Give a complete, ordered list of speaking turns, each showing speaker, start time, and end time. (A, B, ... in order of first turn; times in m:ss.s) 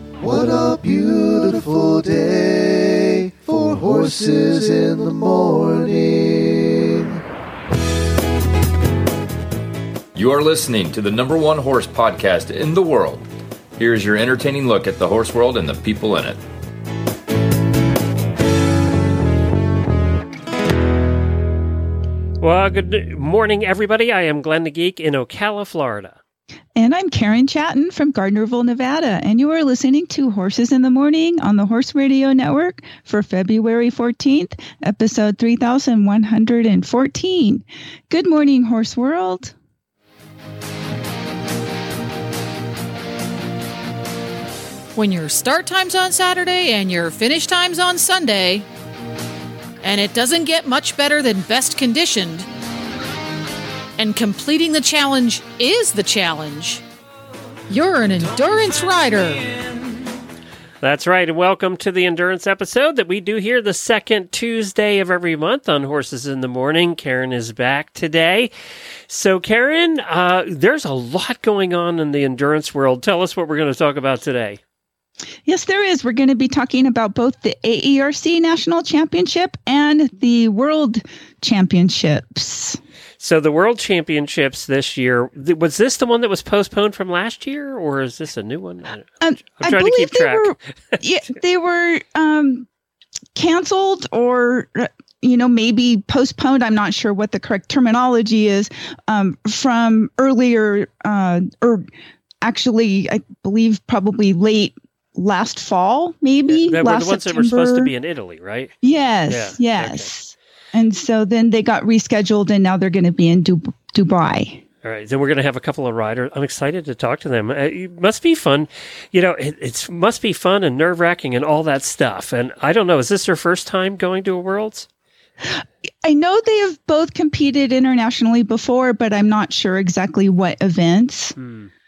0:00.2-0:07.2 A
0:10.1-0:13.2 B
0:13.8-0:16.4 B
0:22.4-0:26.2 C
0:26.7-0:39.5 D
0:44.9-0:48.6 E
0:49.8-0:52.5 E
0:54.0-0:56.8 E
0:57.7-0:59.5 E
1:00.8-1:08.5 C
1:09.1-1:14.6 C
1:15.4-1:22.8 D
1:23.2-1:31.0 C
1:29.2-1:32.7 D
1:33.3-1:41.9 D
1:42.4-1:47.9 D
1:46.5-1:48.7 C
1:48.8-1:54.6 D
1:49.3-1:50.1 C
1:54.8-2:04.9 C
2:05.4-2:11.4 D
2:11.4-2:11.7 C